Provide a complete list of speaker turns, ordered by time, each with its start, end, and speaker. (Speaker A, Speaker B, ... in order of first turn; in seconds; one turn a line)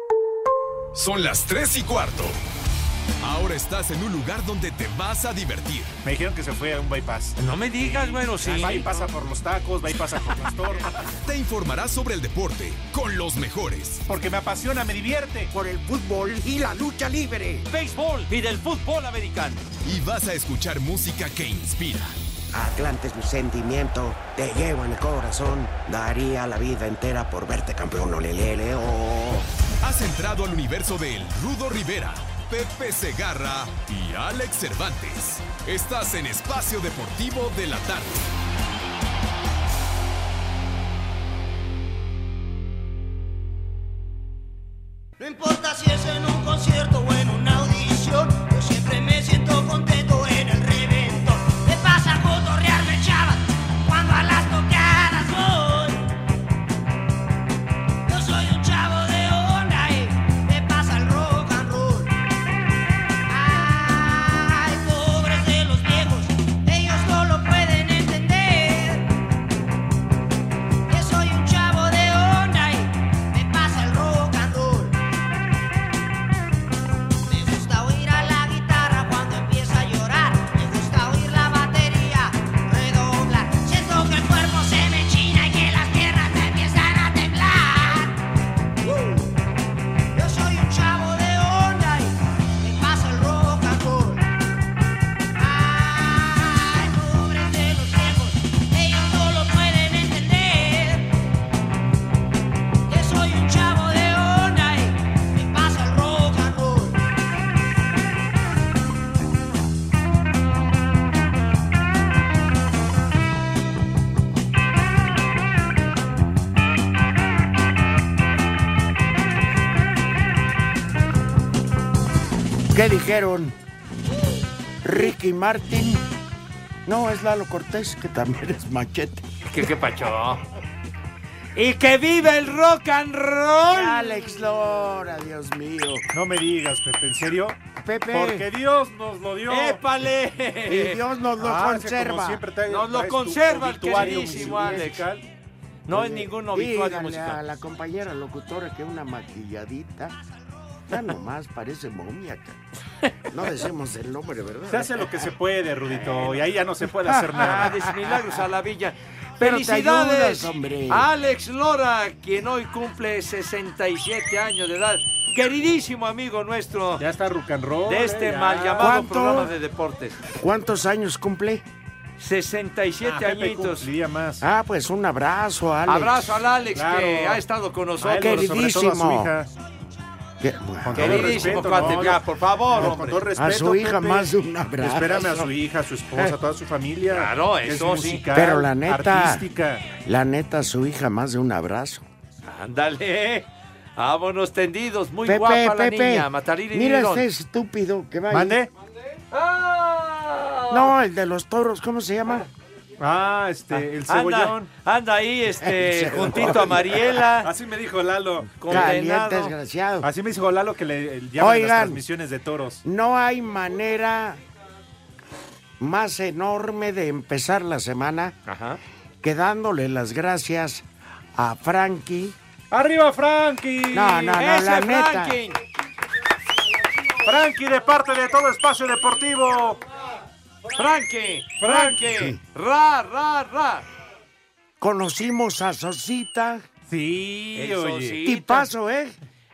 Speaker A: 0.9-2.4
Speaker A: 3.2-5.9
Speaker B: 6.0-11.0
Speaker C: 7.4-8.8
Speaker A: 11.2-14.0
Speaker B: 14.1-15.5
Speaker D: 15.5-17.6
Speaker C: 17.7-19.6
Speaker A: 19.8-22.1
Speaker D: 22.5-29.5
Speaker A: 29.8-38.3
Speaker E: 45.2-56.1
Speaker E: 58.1-62.1
Speaker E: 63.3-69.1
Speaker E: 70.9-75.0
Speaker E: 77.2-88.2
Speaker E: 88.8-89.3
Speaker E: 90.1-94.3
Speaker E: 95.3-101.2
Speaker E: 102.9-107.0
Speaker D: 122.7-123.6
Speaker D: 124.8-126.0
Speaker D: 126.8-129.2
Speaker C: 129.5-130.4
Speaker C: 131.6-134.1
Speaker D: 133.7-136.1
Speaker B: 136.1-139.8
Speaker D: 137.8-138.4
Speaker C: 139.5-141.0
Speaker D: 140.7-142.4
Speaker B: 141.4-145.2
Speaker C: 142.7-145.0
Speaker D: 144.1-144.6
Speaker C: 145.9-147.4
Speaker D: 145.9-150.2
Speaker D: 150.9-152.6
Speaker D: 153.3-155.2
Speaker B: 154.7-157.8
Speaker D: 155.9-156.4
Speaker D: 157.1-158.1
Speaker C: 157.4-167.0
Speaker D: 159.4-161.1
Speaker B: 167.0-169.0
Speaker C: 167.9-170.2
Speaker D: 168.8-169.5
Speaker D: 170.3-171.6
Speaker C: 172.2-173.8
Speaker B: 173.0-174.4
Speaker D: 174.4-176.3
Speaker C: 175.8-178.4
Speaker B: 176.7-177.4
Speaker B: 178.0-179.5
Speaker D: 178.2-179.3
Speaker D: 180.4-181.9
Speaker B: 180.8-189.9
Speaker C: 180.9-183.2
Speaker D: 183.3-185.5
Speaker C: 187.1-188.2
Speaker D: 188.3-192.0
Speaker C: 192.4-197.2
Speaker D: 195.2-198.6
Speaker B: 198.3-198.7
Speaker C: 199.3-200.9
Speaker D: 200.7-202.5
Speaker B: 203.0-204.7
Speaker C: 204.1-207.5
Speaker D: 205.6-206.8
Speaker B: 207.4-208.9
Speaker C: 208.6-209.5
Speaker D: 208.7-210.1
Speaker B: 210.0-212.8
Speaker D: 211.4-212.0
Speaker D: 212.8-214.4
Speaker D: 215.8-218.4
Speaker C: 218.5-218.8
Speaker D: 219.2-222.3
Speaker B: 222.7-224.3
Speaker D: 223.9-225.4
Speaker C: 224.2-225.6
Speaker B: 227.2-229.8
Speaker C: 230.7-233.8
Speaker B: 231.6-231.9
Speaker D: 231.8-232.4
Speaker D: 234.8-236.7
Speaker B: 236.9-238.2
Speaker C: 237.5-238.6
Speaker D: 238.2-239.2